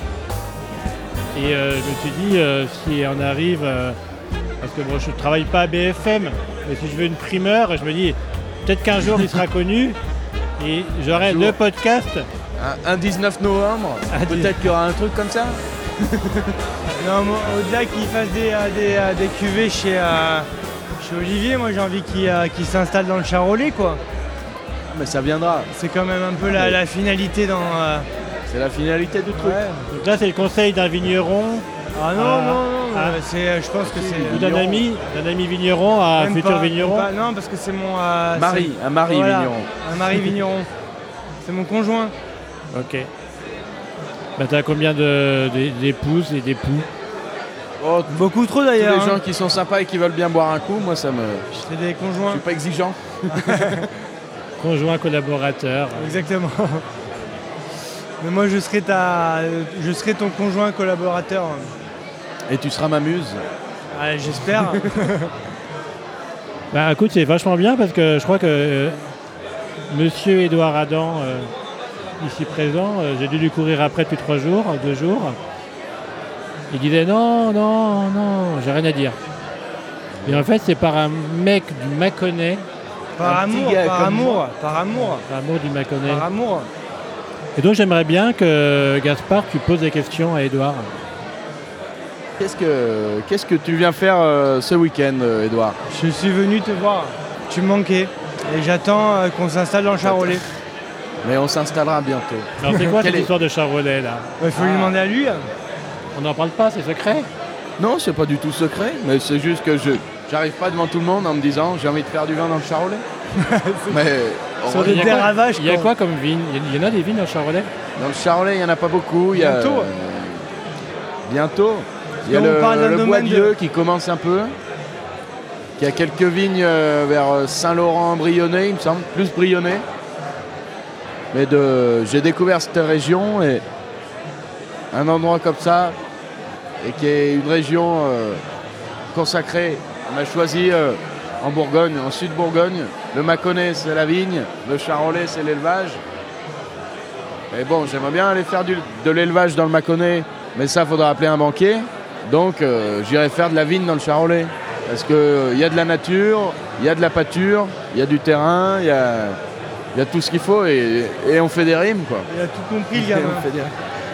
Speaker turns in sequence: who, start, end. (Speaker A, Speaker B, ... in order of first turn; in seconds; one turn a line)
Speaker A: 1.3-4.0
Speaker A: 4.6-10.0
Speaker A: 10.6-12.3
Speaker B: 11.1-11.6
Speaker B: 12.6-16.5
Speaker A: 14.1-14.6
Speaker C: 16.9-20.5
Speaker C: 21.0-24.0
Speaker B: 24.9-25.7
Speaker C: 25.7-28.1
Speaker B: 26.5-26.8
Speaker B: 28.5-29.6
Speaker C: 29.3-29.9
Speaker A: 29.9-33.2
Speaker C: 31.9-34.8
Speaker B: 33.8-34.8
Speaker A: 34.2-37.1
Speaker C: 36.2-40.7
Speaker B: 38.3-39.7
Speaker C: 41.4-42.1
Speaker A: 42.7-43.1
Speaker A: 44.4-46.9
Speaker B: 47.8-48.2
Speaker C: 48.1-49.2
Speaker B: 48.8-51.5
Speaker C: 51.5-52.4
Speaker B: 52.3-53.9
Speaker C: 53.3-53.8
Speaker A: 54.6-56.3
Speaker C: 56.0-56.8
Speaker C: 58.2-61.7
Speaker B: 62.5-63.4
Speaker C: 63.9-65.3
Speaker A: 66.7-69.0
Speaker A: 69.9-71.5
Speaker A: 72.2-75.4
Speaker A: 76.7-79.2
Speaker B: 80.2-80.5
Speaker A: 80.3-82.7
Speaker C: 83.2-85.2
Speaker B: 83.2-84.4
Speaker A: 85.2-86.3
Speaker C: 86.0-86.7
Speaker A: 87.6-90.9
Speaker B: 92.4-95.8
Speaker C: 95.9-100.4
Speaker B: 100.0-100.4
Speaker B: 101.2-103.3
Speaker A: 102.6-105.0
Speaker C: 104.4-105.5
Speaker A: 106.2-107.3
Speaker B: 107.8-113.0
Speaker C: 113.4-114.1
Speaker B: 113.9-115.2
Speaker C: 114.7-115.9
Speaker A: 114.8-117.7
Speaker B: 118.0-120.5
Speaker C: 119.3-119.9
Speaker B: 121.3-124.5
Speaker C: 122.2-123.5
Speaker B: 125.8-129.8
Speaker B: 131.3-133.6
Speaker B: 134.9-136.0
Speaker B: 136.8-138.4
Speaker B: 139.1-146.0
Speaker B: 147.5-159.4
Speaker B: 159.9-162.3
Speaker C: 162.3-163.5
Speaker B: 162.9-163.7